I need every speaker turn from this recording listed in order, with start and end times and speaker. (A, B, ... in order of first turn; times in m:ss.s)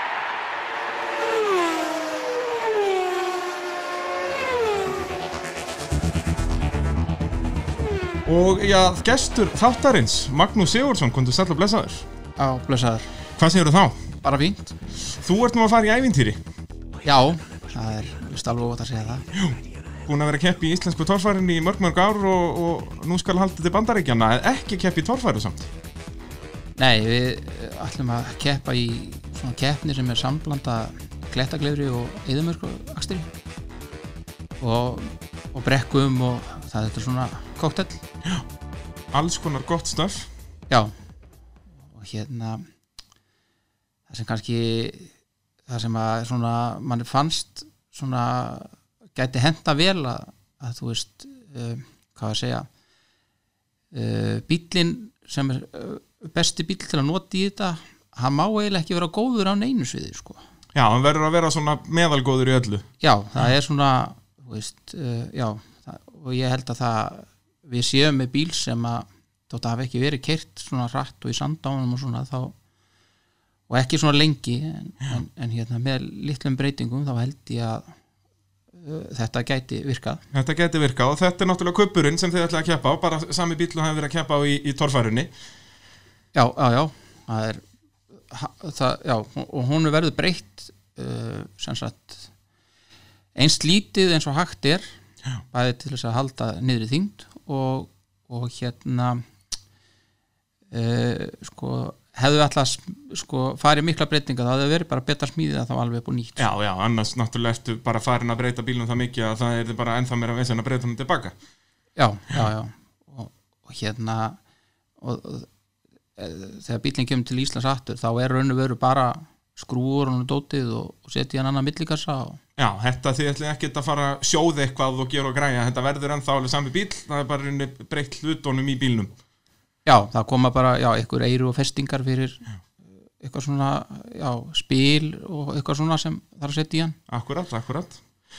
0:08.2-0:12.1 A
0:12.4-0:13.1 B
0:13.4-0:14.1 A
0:14.2-0:14.8 B
0:15.0-0:16.4 A
0:17.0-0:19.2 B
0:19.3-0:25.7 A
0:26.8-0:33.3 B
0:34.6-0:38.0 B
0:39.1-0:40.3 A
0:42.0-0:42.6 B
0:44.1-0:45.1 B
0:45.7-0:52.7 B
0:53.9-1:00.4 B
1:00.7-1:02.9 A
1:03.0-1:12.5 B
1:13.7-1:17.9 B
1:18.7-1:20.2 B
1:20.3-1:25.3 A
1:26.3-1:27.6 B
1:28.3-1:32.3 B
1:33.3-1:34.9 B
1:35.5-1:39.2 B
1:40.7-1:46.4 B
1:46.4-1:51.4 A
1:52.0-1:54.4 B
1:55.0-1:55.5 B
1:56.2-2:02.4 B
2:02.6-2:09.1 A
2:09.8-2:12.4 B
2:13.2-2:17.0 B
2:17.1-2:18.0 A